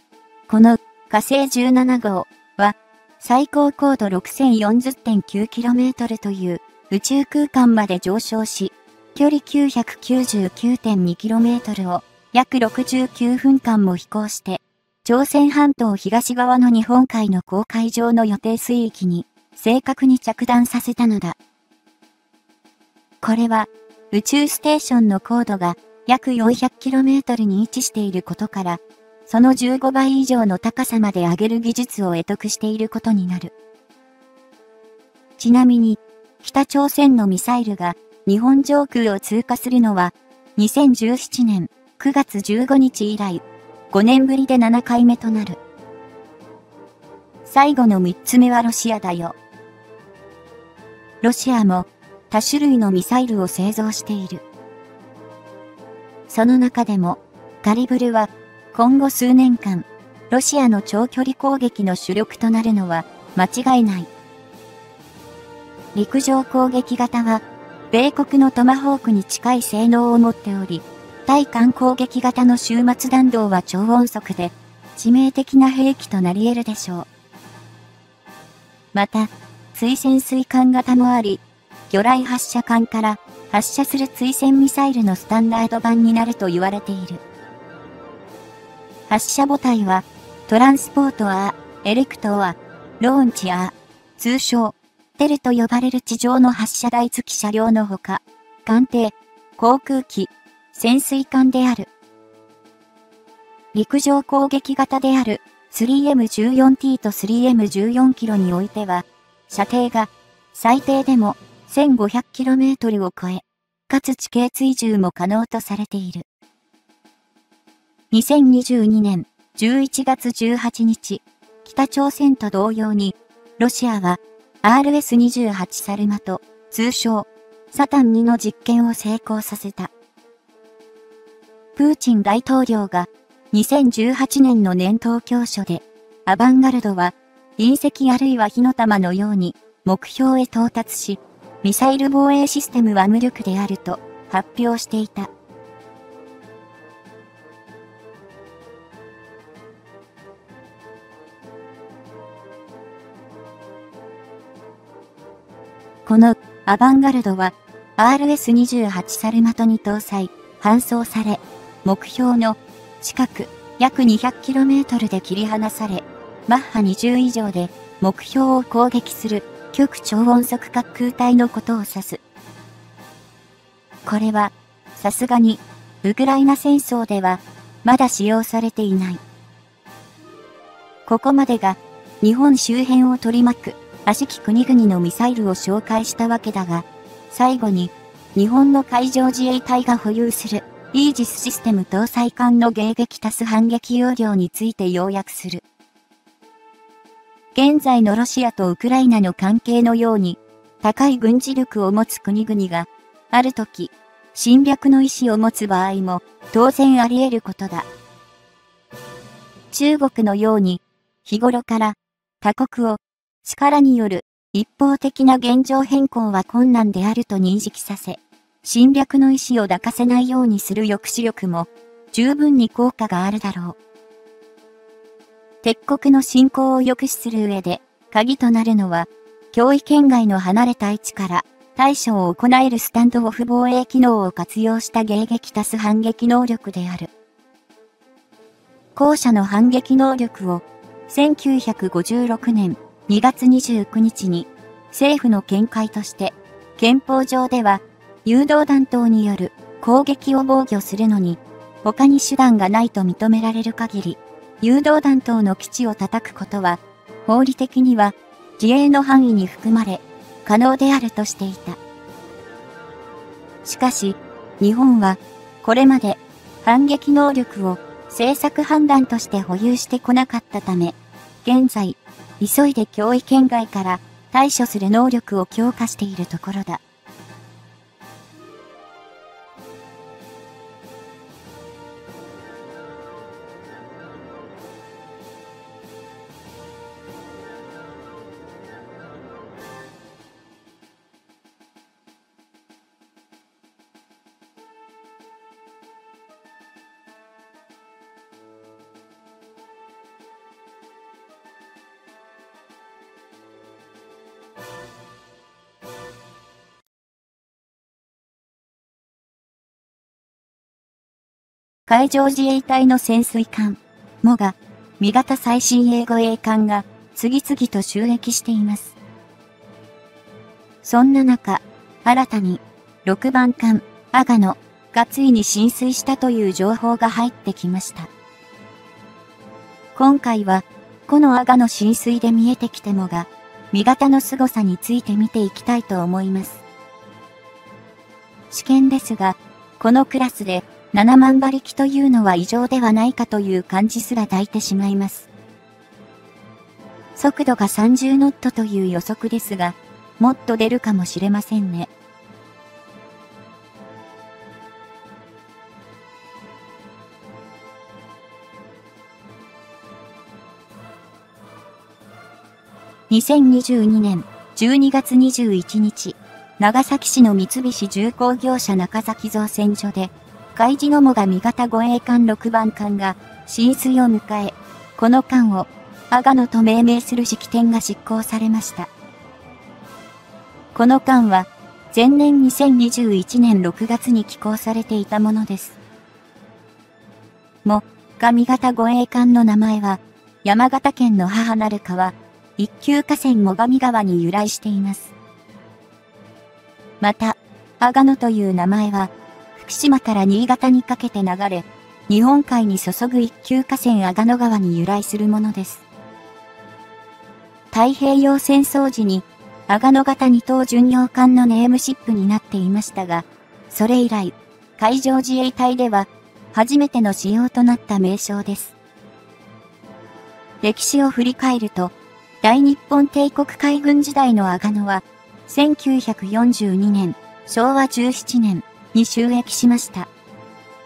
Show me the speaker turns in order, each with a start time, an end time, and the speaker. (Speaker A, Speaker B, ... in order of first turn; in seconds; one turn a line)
Speaker A: 0.5-21.4
Speaker A: 23.2-33.5
Speaker A: 35.4-45.6
Speaker A: 47.5-49.4
Speaker A: 51.2-54.4
Speaker A: 56.3-64.1
Speaker A: 66.0-77.1
Speaker A: 78.9-87.2
Speaker A: 89.1-101.9
Speaker A: 103.7-116.3
Speaker A: 118.1-129.9
Speaker A: 131.8-145.3
Speaker A: 156.1-172.2
Speaker A: 174.1-179.2
Speaker A: 181.1-195.6
Speaker A: 197.5-207.9
Speaker A: 209.7-223.8
Speaker A: 225.6-237.1
Speaker A: 238.9-261.8
Speaker A: 263.6-276.8
Speaker A: 311.9-319.0
Speaker A: 320.8-328.1
Speaker A: 330.0-336.6
Speaker A: 338.5-345.3
Speaker A: 347.2-351.9
Speaker A: 363.1-378.9
Speaker A: 380.8-385.8
Speaker A: 387.6-395.1
Speaker A: 397.0-405.9
Speaker A: 407.7-418.8
Speaker A: 420.6-430.1